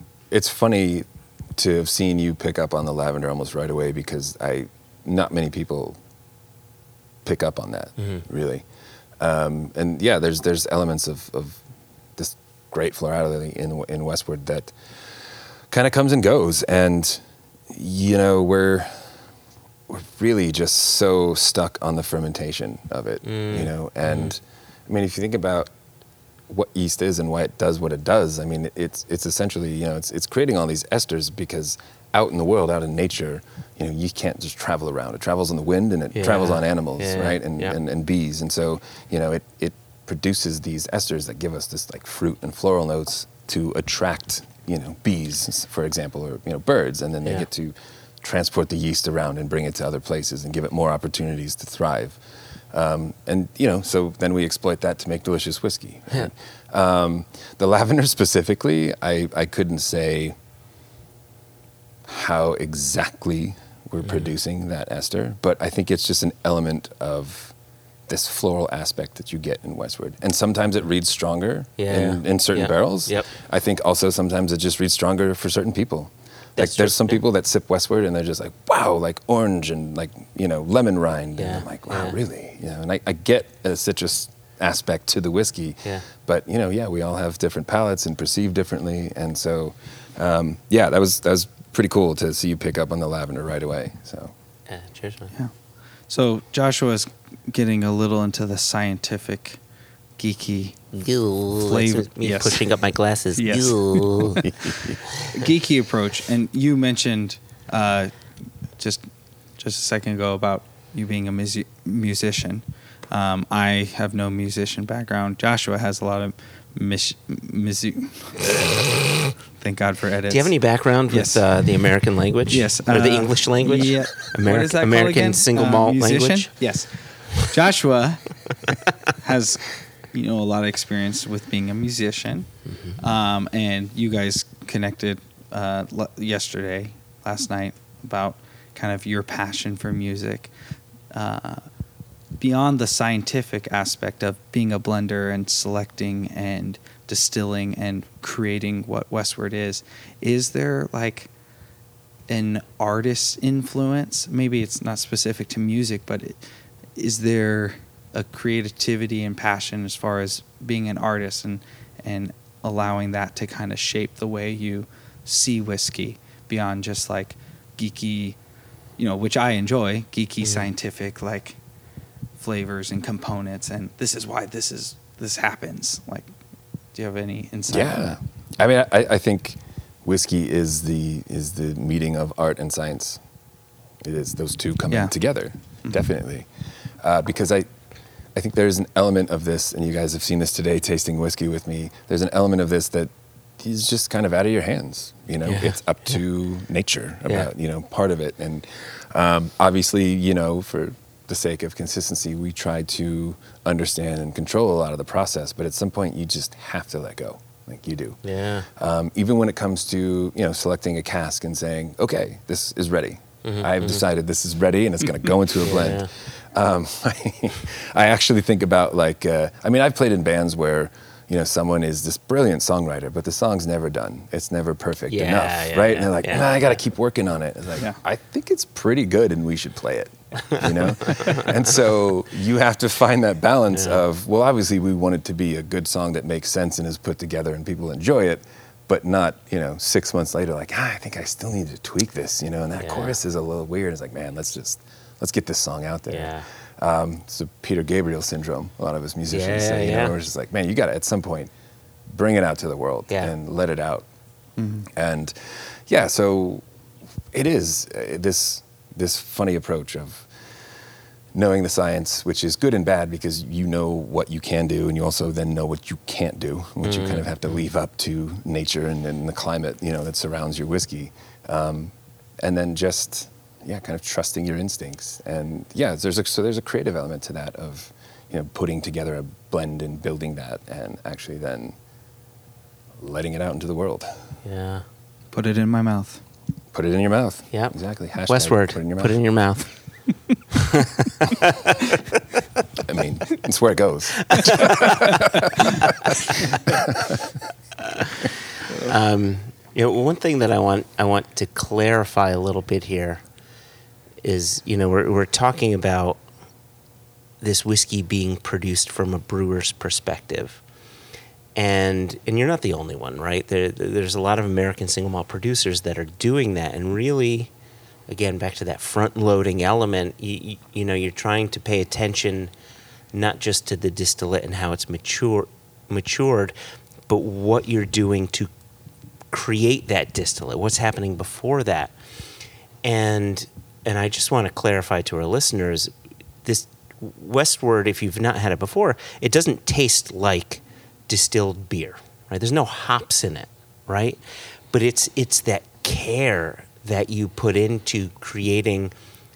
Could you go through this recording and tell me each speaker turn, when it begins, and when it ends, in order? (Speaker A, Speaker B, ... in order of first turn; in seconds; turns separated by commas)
Speaker A: 0.3-6.0, Speaker A: 7.2-8.7, Speaker B: 8.0-8.2, Speaker A: 9.2-11.6, Speaker A: 12.2-14.8, Speaker A: 15.7-19.1, Speaker A: 19.9-25.7, Speaker B: 23.2-24.3, Speaker A: 26.5-52.2, Speaker B: 36.1-37.8, Speaker A: 52.7-60.3, Speaker A: 62.0-67.5, Speaker A: 68.1-94.3, Speaker B: 71.8-73.3, Speaker B: 76.6-77.2, Speaker B: 81.4-82.2, Speaker B: 94.7-95.3, Speaker C: 96.1-99.6, Speaker C: 100.2-100.9, Speaker B: 100.9-104.5, Speaker C: 101.6-102.6, Speaker C: 103.4-104.3, Speaker A: 104.4-105.0, Speaker C: 105.3-108.2, Speaker C: 108.8-109.0, Speaker C: 109.6-119.0, Speaker C: 119.5-120.5, Speaker B: 120.3-126.7, Speaker C: 121.1-121.5, Speaker C: 122.5-140.5, Speaker B: 132.7-133.0, Speaker C: 141.1-141.7, Speaker C: 142.4-151.3, Speaker C: 152.3-156.4, Speaker C: 156.9-168.4, Speaker C: 169.0-171.6, Speaker B: 170.4-170.7, Speaker C: 172.4-176.3, Speaker C: 176.9-178.2, Speaker A: 177.7-183.2, Speaker A: 184.0-186.5, Speaker A: 187.0-187.7, Speaker A: 188.3-208.2, Speaker B: 195.4-195.8, Speaker B: 197.2-197.5, Speaker B: 208.2-208.7, Speaker A: 208.7-251.5, Speaker B: 213.4-214.0, Speaker B: 215.6-216.1, Speaker B: 225.1-226.8, Speaker B: 230.5-231.5, Speaker B: 233.7-234.0, Speaker B: 242.8-243.2, Speaker B: 246.1-246.5, Speaker B: 249.3-250.1, Speaker A: 252.1-254.1, Speaker B: 253.1-253.3, Speaker C: 254.6-254.9, Speaker A: 254.9-256.6, Speaker A: 257.3-260.3, Speaker A: 261.3-281.8, Speaker B: 266.8-267.2, Speaker A: 283.0-284.1, Speaker B: 284.4-284.8, Speaker C: 285.3-286.2, Speaker A: 286.7-289.2, Speaker B: 288.3-289.7, Speaker B: 290.5-291.9, Speaker A: 292.8-297.2, Speaker B: 294.2-295.0, Speaker B: 295.9-296.6, Speaker B: 298.0-303.2, Speaker B: 304.2-306.2, Speaker B: 307.4-310.6, Speaker B: 311.6-317.5, Speaker B: 318.1-322.5, Speaker B: 323.1-326.5, Speaker B: 327.1-328.5, Speaker B: 329.3-331.9, Speaker B: 332.8-335.9, Speaker B: 336.4-344.2, Speaker B: 344.7-348.9